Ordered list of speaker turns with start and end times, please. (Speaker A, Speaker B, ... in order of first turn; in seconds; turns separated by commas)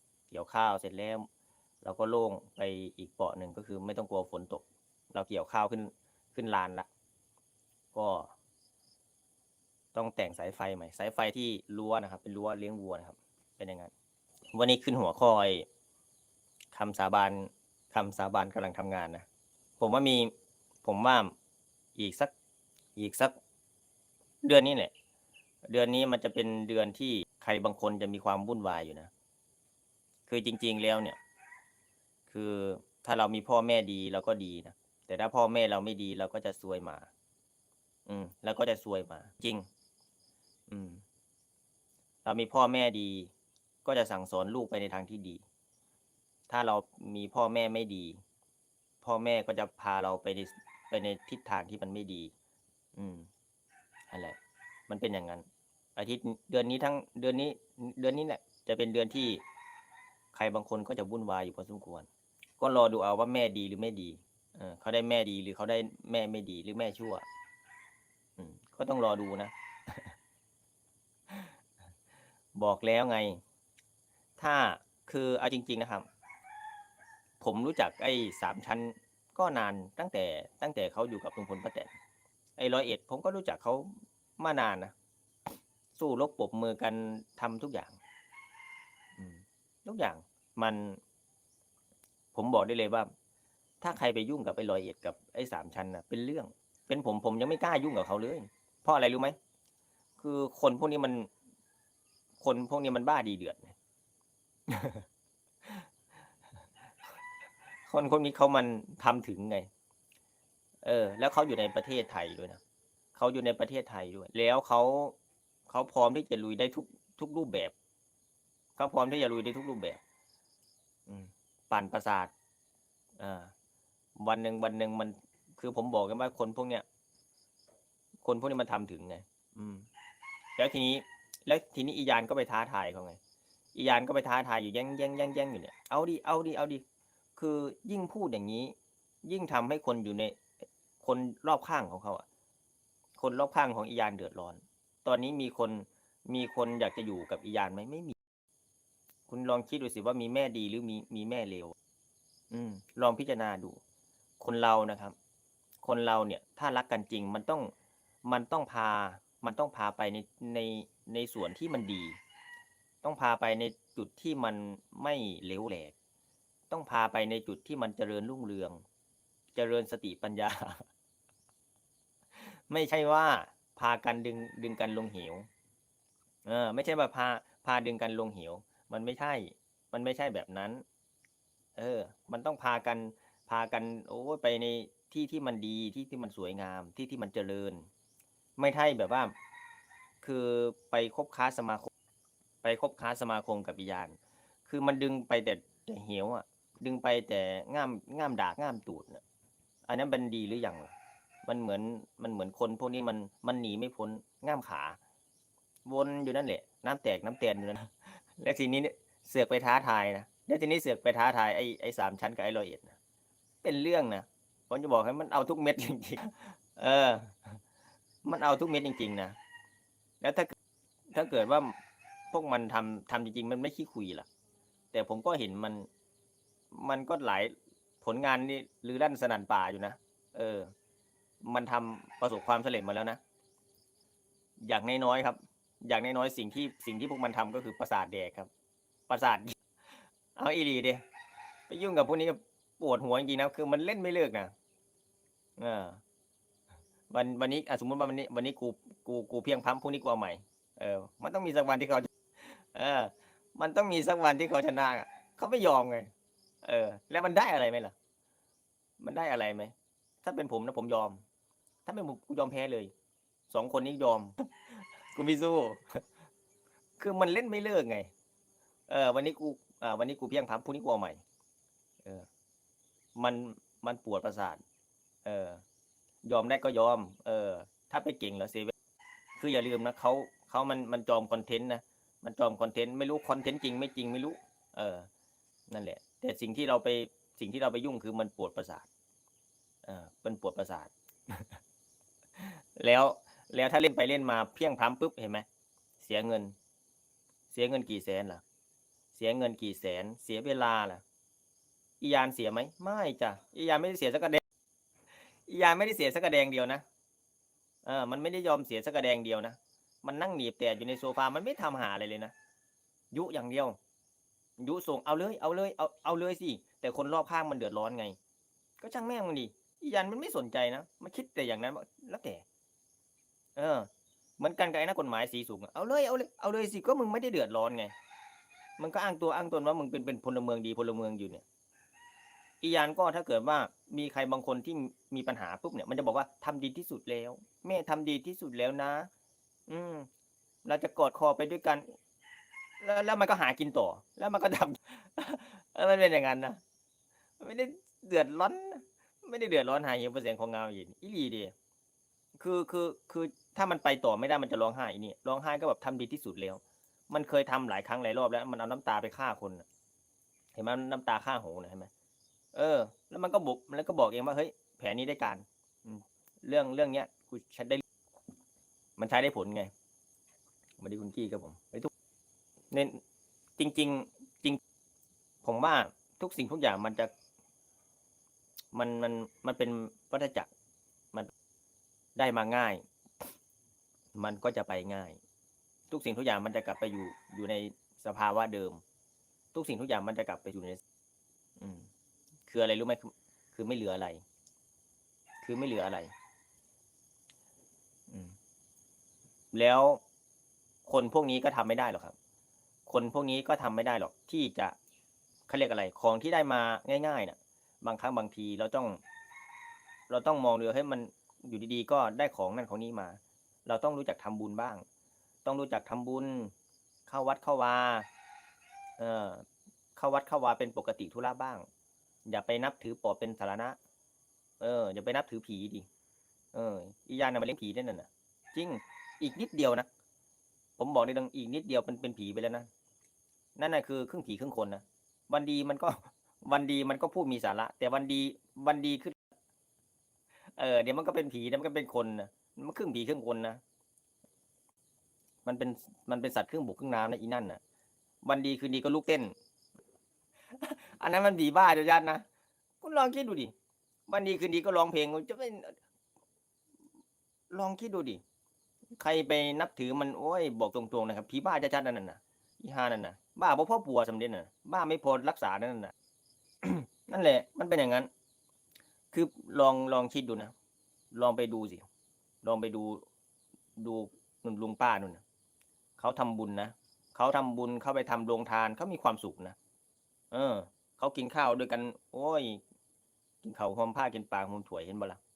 Speaker A: 0.3-1.3, Speaker A: 1.8-6.9, Speaker A: 7.9-8.3, Speaker A: 9.9-13.9, Speaker A: 14.5-15.7, Speaker A: 16.7-19.2, Speaker A: 19.8-20.3, Speaker A: 20.8-21.3, Speaker A: 21.9-22.3, Speaker A: 23.0-23.3, Speaker A: 24.4-24.9, Speaker A: 25.7-29.1, Speaker A: 30.3-31.2, Speaker A: 32.3-37.1, Speaker A: 38.1-39.7, Speaker A: 40.7-41.0, Speaker A: 42.2-43.3, Speaker A: 43.8-45.4, Speaker A: 46.5-48.2, Speaker A: 49.0-52.3, Speaker A: 53.0-53.3, Speaker A: 54.1-54.4, Speaker A: 54.9-55.4, Speaker A: 56.0-59.4, Speaker A: 60.3-62.1, Speaker A: 62.6-67.2, Speaker A: 68.4-70.1, Speaker A: 71.3-71.5, Speaker A: 72.5-73.4, Speaker A: 74.4-76.1, Speaker A: 77.4-81.9, Speaker A: 82.6-84.9, Speaker A: 85.9-88.0, Speaker A: 89.2-91.0, Speaker A: 92.3-93.1, Speaker A: 93.8-99.3, Speaker A: 100.2-101.3, Speaker A: 102.4-103.7, Speaker A: 104.7-105.0, Speaker A: 107.9-109.7, Speaker A: 110.8-112.6, Speaker A: 113.1-115.2, Speaker A: 115.7-117.7, Speaker A: 118.8-120.0, Speaker A: 121.1-122.3, Speaker A: 123.2-123.5, Speaker A: 124.2-126.8, Speaker A: 128.2-129.9, Speaker A: 130.6-133.2, Speaker A: 133.7-136.8, Speaker A: 137.4-140.4, Speaker A: 141.0-142.2, Speaker A: 143.2-148.2, Speaker A: 149.3-151.7, Speaker A: 152.5-153.8, Speaker A: 154.4-155.1, Speaker A: 155.8-157.7, Speaker A: 158.2-162.2, Speaker A: 163.0-165.9, Speaker A: 166.7-168.8, Speaker A: 169.5-170.8, Speaker A: 172.3-175.5, Speaker A: 176.4-180.8, Speaker A: 181.8-187.9, Speaker A: 188.6-189.3, Speaker A: 190.2-191.9, Speaker A: 192.6-199.2, Speaker A: 199.8-205.0, Speaker A: 205.8-213.0, Speaker A: 213.6-217.6, Speaker A: 218.2-219.3, Speaker A: 220.2-220.5, Speaker A: 221.1-221.7, Speaker A: 222.3-224.3, Speaker A: 224.9-225.9, Speaker A: 226.7-230.7, Speaker A: 231.4-233.2, Speaker A: 234.6-238.5, Speaker A: 239.1-239.6, Speaker A: 240.3-241.0, Speaker A: 241.7-244.5, Speaker A: 245.6-246.0, Speaker A: 247.1-256.1, Speaker A: 256.6-257.9, Speaker A: 259.0-261.2, Speaker A: 261.9-262.9, Speaker A: 263.5-266.0, Speaker A: 267.0-268.1, Speaker A: 268.9-271.2, Speaker A: 273.1-274.6, Speaker A: 275.2-275.6, Speaker A: 276.2-278.7, Speaker A: 279.4-285.1, Speaker A: 285.7-288.9, Speaker A: 289.8-291.6, Speaker A: 292.4-295.4, Speaker A: 296.0-296.5, Speaker A: 297.5-298.4, Speaker A: 299.1-301.0, Speaker A: 302.0-304.4, Speaker A: 305.5-306.8, Speaker A: 307.8-312.3, Speaker A: 313.1-313.8, Speaker A: 314.6-318.2, Speaker A: 318.8-322.4, Speaker A: 323.6-327.9, Speaker A: 328.8-331.4, Speaker A: 332.6-339.1, Speaker A: 339.7-340.1, Speaker A: 340.6-341.9, Speaker A: 342.8-346.6, Speaker A: 347.4-351.5, Speaker A: 352.4-359.6, Speaker A: 360.5-361.9, Speaker A: 362.5-367.8, Speaker A: 369.0-369.7, Speaker A: 370.8-371.9, Speaker A: 372.7-373.0, Speaker A: 373.6-374.6, Speaker A: 375.4-377.1, Speaker A: 378.7-380.5, Speaker A: 382.1-382.8, Speaker A: 384.1-385.2, Speaker A: 385.9-388.8, Speaker A: 389.5-390.8, Speaker A: 391.6-391.9, Speaker A: 392.4-394.2, Speaker A: 395.4-396.1, Speaker A: 398.1-398.3, Speaker A: 399.5-400.0, Speaker A: 400.9-402.1, Speaker A: 402.9-404.8, Speaker A: 405.5-409.0, Speaker A: 410.1-414.8, Speaker A: 415.4-416.5, Speaker A: 417.1-418.1, Speaker A: 419.0-421.6, Speaker A: 422.2-423.8, Speaker A: 424.6-425.9, Speaker A: 426.5-429.9, Speaker A: 430.8-432.7, Speaker A: 433.6-439.1, Speaker A: 440.6-443.6, Speaker A: 445.4-447.6, Speaker A: 448.2-449.3, Speaker A: 450.5-452.2, Speaker A: 452.8-453.5, Speaker A: 454.1-455.8, Speaker A: 457.5-458.2, Speaker A: 459.0-465.9, Speaker A: 466.6-468.1, Speaker A: 469.1-470.5, Speaker A: 471.1-471.8, Speaker A: 472.4-473.1, Speaker A: 473.8-475.2, Speaker A: 476.0-479.6, Speaker A: 480.3-482.6, Speaker A: 483.4-485.2